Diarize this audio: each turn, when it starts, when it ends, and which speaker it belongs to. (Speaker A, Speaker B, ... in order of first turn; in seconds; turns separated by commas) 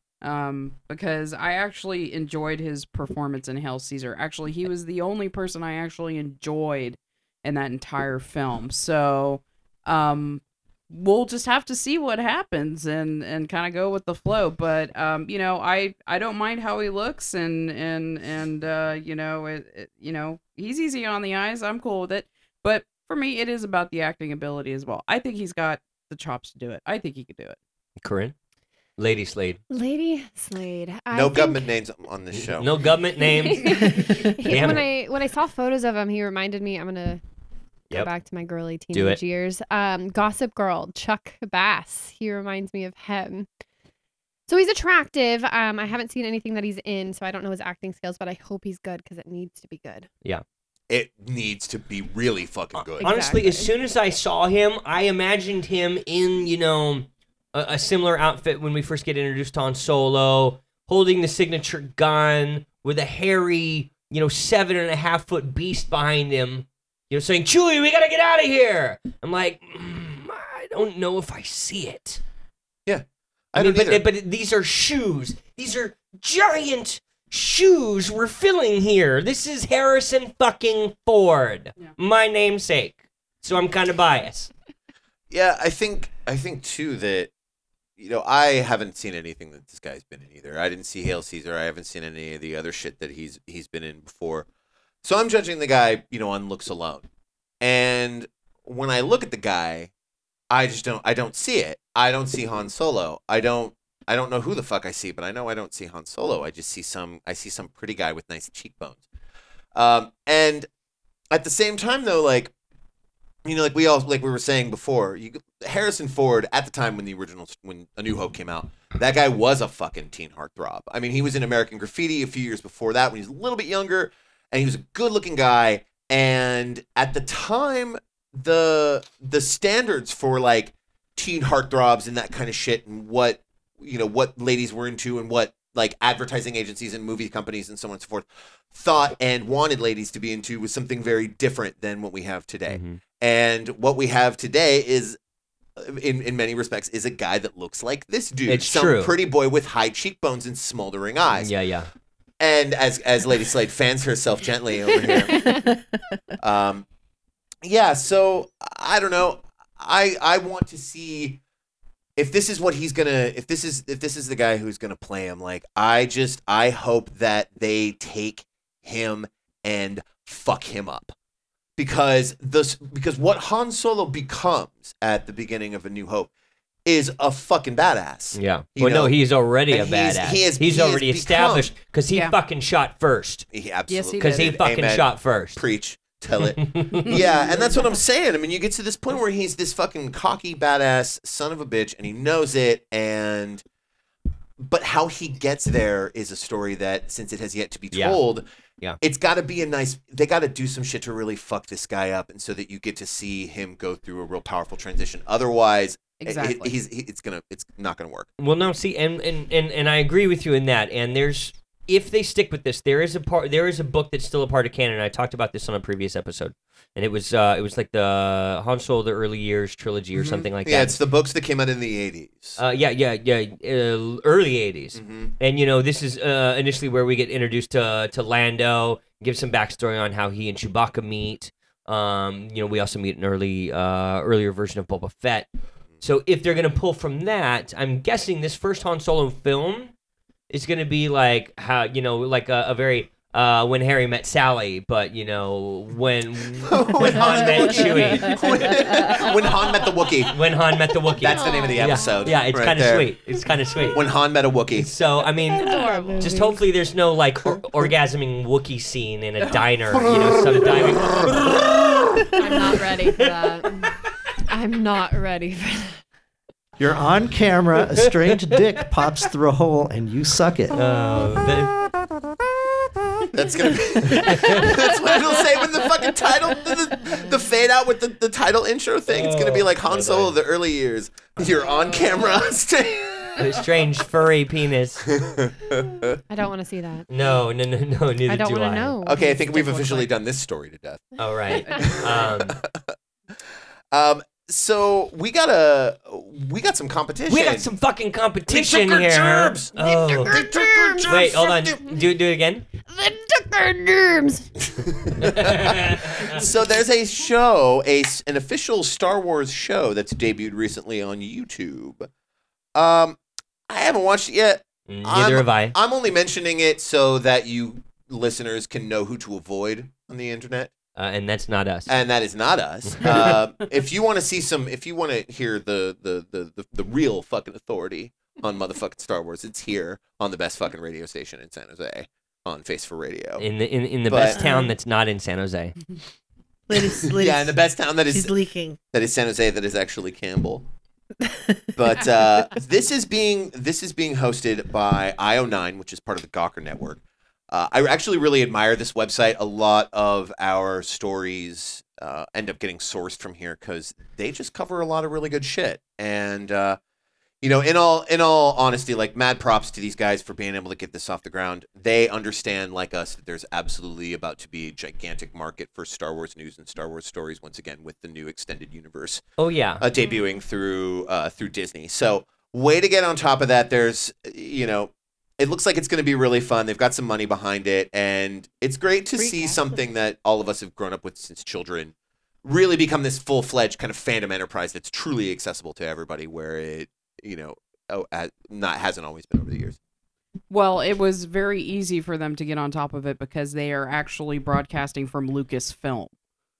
Speaker A: 0.2-27.6, Speaker B: 28.0-28.3, Speaker B: 29.0-29.6, Speaker C: 29.7-31.7, Speaker D: 31.1-32.7, Speaker B: 32.3-34.9, Speaker C: 33.3-37.2, Speaker C: 37.9-43.5, Speaker B: 38.9-39.2, Speaker C: 44.5-50.1, Speaker D: 50.9-53.1, Speaker B: 53.0-72.2, Speaker D: 72.8-74.1, Speaker B: 73.5-84.5, Speaker D: 85.3-87.3, Speaker D: 88.0-94.5, Speaker D: 95.0-97.0, Speaker D: 97.6-99.9, Speaker D: 100.5-109.0, Speaker D: 109.7-110.7, Speaker D: 111.3-112.5, Speaker D: 113.4-145.2, Speaker B: 142.7-143.0, Speaker D: 145.8-151.5, Speaker B: 148.4-149.1, Speaker B: 151.3-151.9, Speaker D: 152.4-155.4, Speaker C: 155.0-155.6, Speaker E: 155.2-156.0, Speaker D: 156.4-156.8, Speaker D: 157.6-161.4, Speaker D: 162.2-171.1, Speaker D: 171.8-176.3, Speaker D: 176.8-179.2, Speaker B: 178.3-183.5, Speaker D: 179.7-181.7, Speaker D: 183.5-193.6, Speaker A: 183.9-184.5, Speaker B: 184.2-185.6, Speaker B: 186.4-187.1, Speaker D: 194.6-198.4, Speaker B: 197.9-198.2, Speaker D: 199.0-208.3, Speaker A: 206.2-206.7, Speaker B: 208.4-221.0, Speaker D: 220.1-222.6, Speaker B: 222.6-235.5, Speaker D: 224.9-225.3, Speaker B: 236.0-239.9, Speaker B: 240.5-248.4, Speaker D: 246.6-250.5, Speaker B: 250.3-254.0, Speaker D: 251.1-253.1, Speaker C: 251.2-252.3, Speaker D: 253.9-254.9, Speaker B: 254.8-262.0, Speaker C: 255.6-256.5, Speaker E: 255.7-256.6, Speaker D: 260.0-261.5, Speaker C: 262.4-266.0, Speaker F: 266.8-270.8, Speaker B: 270.7-271.7, Speaker D: 273.3-283.7, Speaker B: 274.1-274.7, Speaker C: 277.1-277.4, Speaker B: 279.1-280.4, Speaker B: 283.4-285.1, Speaker D: 285.0-286.2, Speaker C: 286.3-287.1, Speaker B: 287.1-288.9, Speaker C: 288.2-290.1, Speaker D: 289.0-292.7, Speaker B: 291.2-292.6, Speaker D: 293.9-297.7, Speaker B: 297.3-300.4, Speaker D: 298.5-301.8, Speaker C: 300.1-302.0, Speaker B: 301.0-302.7, Speaker C: 302.9-305.5, Speaker B: 305.2-306.4, Speaker D: 305.2-312.1, Speaker D: 312.7-320.7, Speaker B: 314.9-315.7, Speaker B: 320.9-321.9, Speaker D: 321.9-333.4, Speaker B: 322.8-323.3, Speaker B: 333.4-335.8, Speaker D: 334.1-334.4, Speaker E: 334.4-334.7, Speaker E: 336.7-337.6, Speaker D: 336.8-338.3, Speaker E: 338.1-338.8, Speaker D: 338.9-340.7, Speaker E: 341.2-341.6, Speaker D: 341.8-356.8, Speaker D: 357.4-389.8, Speaker B: 369.4-369.8, Speaker E: 379.2-379.8, Speaker A: 390.5-396.1